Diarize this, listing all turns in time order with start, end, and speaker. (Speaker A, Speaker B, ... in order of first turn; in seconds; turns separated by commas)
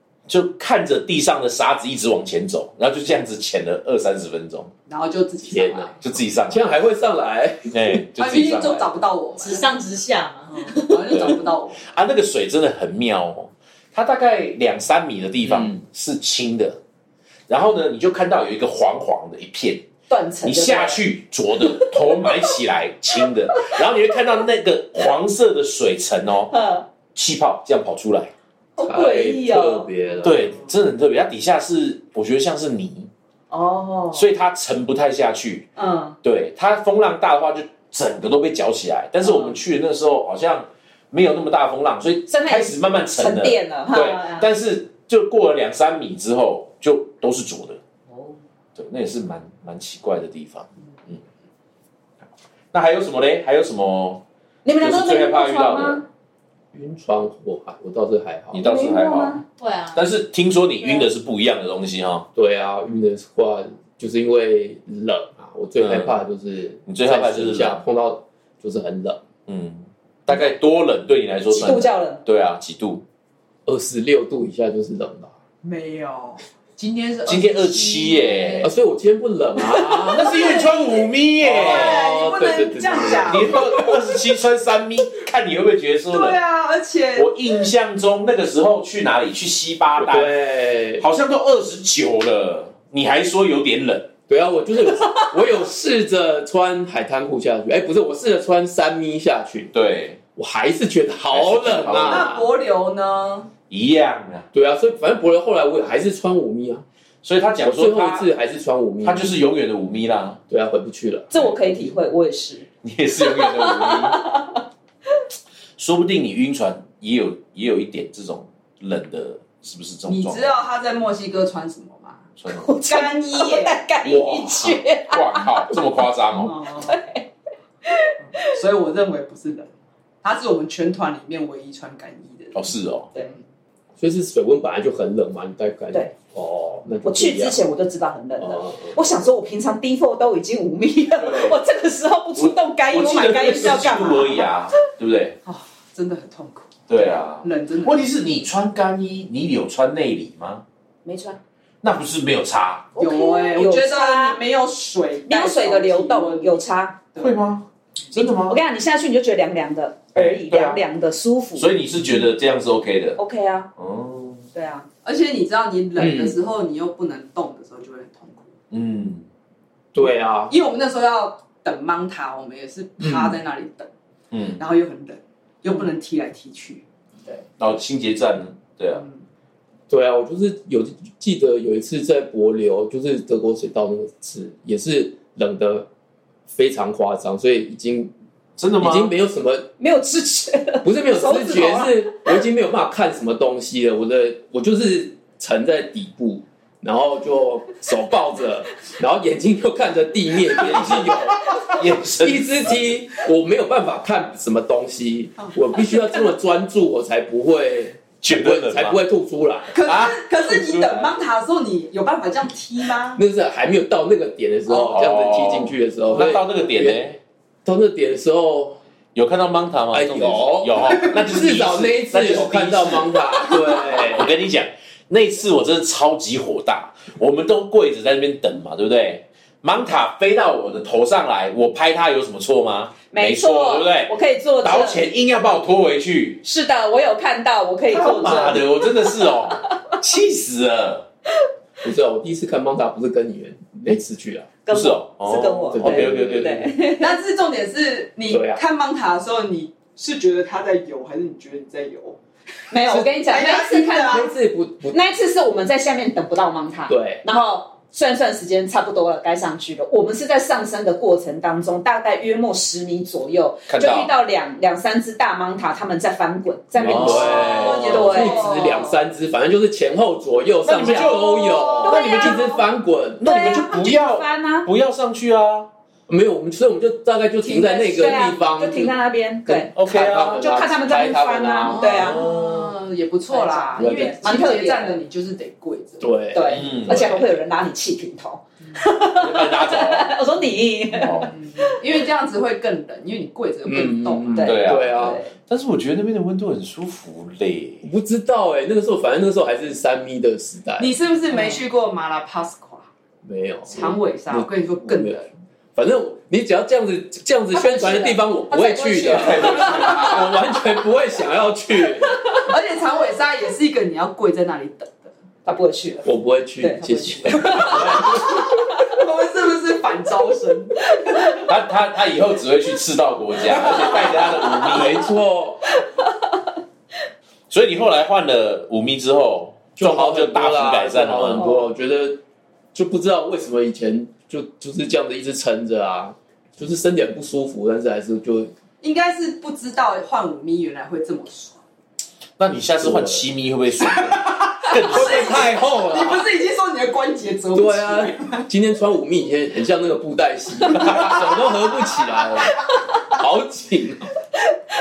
Speaker A: 0.3-4.7, Speaker B: 4.9-6.0, Speaker C: 5.5-5.9, Speaker A: 6.0-6.7, Speaker C: 6.5-8.0, Speaker A: 7.7-8.9, Speaker B: 8.2-9.7, Speaker D: 9.4-11.0, Speaker B: 10.5-11.9, Speaker A: 11.1-16.8, Speaker C: 15.4-15.7, Speaker A: 17.5-19.8, Speaker E: 20.1-21.0, Speaker A: 20.4-26.5, Speaker E: 26.5-26.8, Speaker A: 27.1-28.3, Speaker E: 28.8-29.9, Speaker C: 28.8-30.5, Speaker A: 30.2-33.1, Speaker E: 33.5-34.2, Speaker A: 34.1-35.7, Speaker E: 35.8-36.2, Speaker A: 36.2-47.8, Speaker E: 39.2-39.5, Speaker E: 42.3-44.5, Speaker A: 48.7-51.2, Speaker A: 52.7-54.2, Speaker E: 54.6-56.0, Speaker A: 54.8-56.0, Speaker C: 56.7-58.7, Speaker A: 58.5-59.4, Speaker E: 58.6-59.4, Speaker D: 59.6-60.1, Speaker A: 59.9-62.3, Speaker C: 62.3-69.2, Speaker A: 65.8-66.2, Speaker A: 66.9-67.8, Speaker A: 69.5-73.0, Speaker E: 71.5-72.2, Speaker C: 73.7-75.3, Speaker B: 75.6-78.7, Speaker A: 77.2-78.7, Speaker C: 78.6-80.5, Speaker E: 79.8-80.1, Speaker A: 80.1-82.1, Speaker C: 81.4-83.8, Speaker B: 81.4-83.7, Speaker A: 83.2-86.4, Speaker B: 86.1-87.5, Speaker A: 87.1-90.4, Speaker C: 90.0-91.0, Speaker A: 91.0-94.1, Speaker C: 94.3-99.7, Speaker A: 99.7-100.2, Speaker C: 100.3-102.5, Speaker A: 101.3-102.3, Speaker B: 102.0-103.5, Speaker A: 103.7-104.5, Speaker C: 104.5-106.8, Speaker A: 107.2-108.3, Speaker C: 107.6-109.3, Speaker A: 109.0-110.4, Speaker C: 110.5-111.3, Speaker E: 111.3-112.7, Speaker A: 112.8-114.2, Speaker E: 113.2-114.6, Speaker A: 115.8-120.6, Speaker B: 120.0-122.3, Speaker A: 122.4-122.7, Speaker E: 122.5-125.8, Speaker B: 122.8-123.8, Speaker C: 124.1-124.4, Speaker A: 124.1-126.5, Speaker B: 126.4-127.0, Speaker E: 126.7-127.3, Speaker E: 127.8-128.6, Speaker B: 128.4-129.7, Speaker B: 130.2-133.4, Speaker A: 132.5-133.1, Speaker C: 134.0-137.6, Speaker E: 137.0-144.5, Speaker C: 138.4-139.0, Speaker A: 141.1-141.6, Speaker A: 142.3-145.3, Speaker B: 145.4-148.1, Speaker A: 146.9-150.6, Speaker E: 151.0-151.4, Speaker A: 151.8-152.9, Speaker E: 152.9-154.4, Speaker B: 153.0-156.6, Speaker E: 155.3-157.0, Speaker A: 157.2-158.6, Speaker E: 158.4-161.7, Speaker A: 160.1-160.8, Speaker A: 161.6-163.2, Speaker E: 163.2-163.7, Speaker A: 163.8-164.4, Speaker E: 164.5-164.9, Speaker B: 165.0-168.5, Speaker C: 166.0-166.3, Speaker A: 168.7-169.2, Speaker C: 169.9-170.5, Speaker B: 170.5-173.9, Speaker C: 173.0-173.4, Speaker A: 174.3-174.6, Speaker B: 174.6-177.4, Speaker A: 177.6-179.0, Speaker B: 178.9-179.2, Speaker C: 179.9-185.9, Speaker C: 186.5-188.1, Speaker A: 188.6-189.1, Speaker C: 188.8-189.7, Speaker E: 189.8-192.4, Speaker C: 190.8-209.7, Speaker A: 200.6-202.9, Speaker A: 208.2-209.0, Speaker B: 209.7-213.2, Speaker A: 209.8-211.2, Speaker C: 213.2-217.0, Speaker A: 214.7-217.2, Speaker C: 217.6-218.8, Speaker A: 219.1-236.4, Speaker C: 219.9-224.3, Speaker E: 233.1-235.0, Speaker E: 236.4-239.7, Speaker A: 237.9-241.1, Speaker C: 241.8-244.5, Speaker E: 244.7-247.2, Speaker A: 244.7-246.7, Speaker C: 245.7-246.6, Speaker B: 247.0-252.2, Speaker C: 248.3-248.6, Speaker E: 252.7-254.3, Speaker B: 253.2-254.3, Speaker C: 254.1-255.0, Speaker E: 254.9-268.6, Speaker C: 256.9-257.2, Speaker A: 263.7-264.1, Speaker C: 266.8-273.2, Speaker A: 266.8-268.1, Speaker B: 267.4-269.0, Speaker A: 270.6-272.5, Speaker E: 270.8-271.2, Speaker E: 271.8-272.6, Speaker A: 273.2-275.7, Speaker E: 273.2-274.7, Speaker C: 276.1-278.9, Speaker E: 277.4-282.3, Speaker C: 279.4-282.5, Speaker A: 279.7-280.4, Speaker B: 281.7-286.2, Speaker A: 281.9-282.5, Speaker E: 283.3-285.0, Speaker C: 283.8-284.2, Speaker C: 286.0-287.2, Speaker E: 286.3-291.8, Speaker A: 286.5-287.3, Speaker A: 289.1-290.2, Speaker A: 290.9-291.3, Speaker B: 291.3-294.6, Speaker C: 293.6-295.2, Speaker E: 294.3-295.3, Speaker A: 294.4-297.9, Speaker C: 297.8-300.9, Speaker B: 300.8-302.9, Speaker E: 301.3-301.6, Speaker C: 303.2-305.2, Speaker B: 303.7-305.3, Speaker C: 305.8-312.2, Speaker E: 307.5-310.2, Speaker A: 309.1-310.3, Speaker B: 309.3-309.8, Speaker E: 312.1-312.5, Speaker B: 312.4-315.1, Speaker E: 315.4-318.6, Speaker C: 316.0-318.4, Speaker A: 317.7-318.0, Speaker B: 317.8-320.9, Speaker E: 320.9-321.4, Speaker A: 321.4-325.1, Speaker C: 324.6-325.6, Speaker E: 325.8-326.1, Speaker A: 327.5-331.5, Speaker C: 329.8-332.2, Speaker C: 332.7-338.5, Speaker B: 338.8-341.6, Speaker A: 342.4-345.6, Speaker C: 342.8-343.2, Speaker B: 344.1-348.5, Speaker C: 344.9-346.2, Speaker C: 347.5-354.1, Speaker A: 350.7-351.2